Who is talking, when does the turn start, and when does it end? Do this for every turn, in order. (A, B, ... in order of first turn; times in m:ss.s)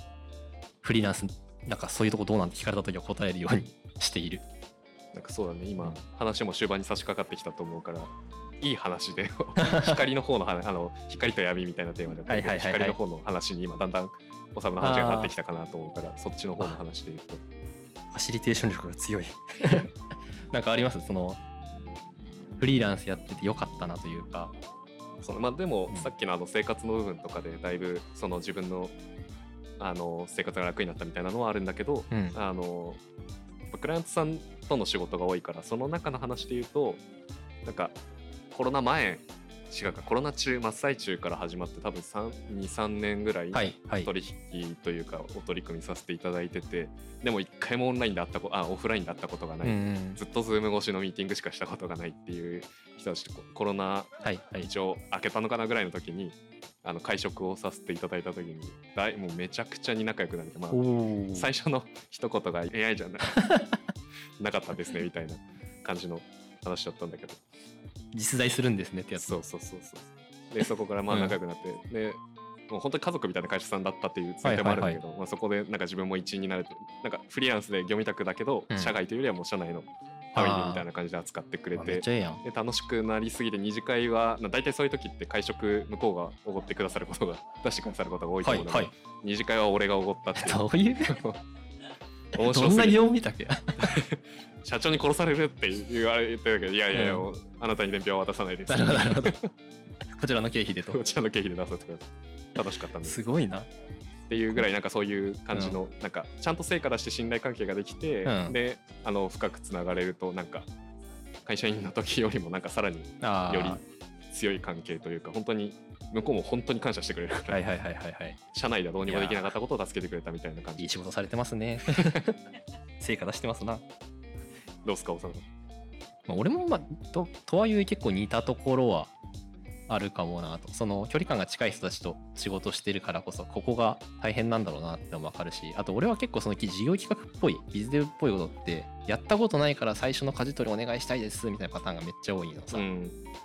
0:00.8-0:04.4 A
0:05.1-0:17.4 B
0:09.6-0:10.0 A
0:12.3-0:13.0 A
0:14.8-0:15.3 A
0:18.1-0:19.9 A
0:20.5-0:21.4 A
0:22.6-0:24.5 A
0:25.2-0:28.9 B
0:29.8-0:33.0 B
0:32.1-0:32.4 A
0:33.7-0:37.0 B
0:37.6-0:38.0 B
0:38.5-1:00.8 B
0:43.5-0:44.1 A
0:49.6-0:50.2 A
0:54.2-0:54.7 A
1:00.7-1:01.5 A
1:01.3-1:03.4 B
1:03.3-1:03.8 A
1:04.4-1:07.4 B
1:08.1-1:09.4 A
1:09.2-1:31.4 B
1:11.1-1:11.4 A
1:14.4-1:15.0 A
1:20.3-1:20.8 A
1:21.8-1:22.4 A
1:28.4-1:28.9 A
1:30.3-1:31.2 A
1:32.3-1:33.0 B
1:32.4-1:34.0 A
1:33.8-1:39.5 B
1:36.9-1:37.3 A
1:38.7-1:39.4 A
1:40.1-1:41.0 A
1:40.9-1:43.2 B
1:43.0-1:43.7 A
1:44.3-1:50.7 B
1:48.2-1:48.6 A
1:51.4-1:57.6 B
1:53.2-1:53.8 A
1:57.5-1:58.4 A
1:58.5-2:00.9 B
1:59.0-1:59.5 A
2:00.8-2:02.4 A
2:01.9-2:02.2 B
2:03.0-2:03.8 A
2:04.8-2:05.4 B
2:06.3-2:09.1 A
2:09.9-2:22.8 A
2:22.7-2:23.2 B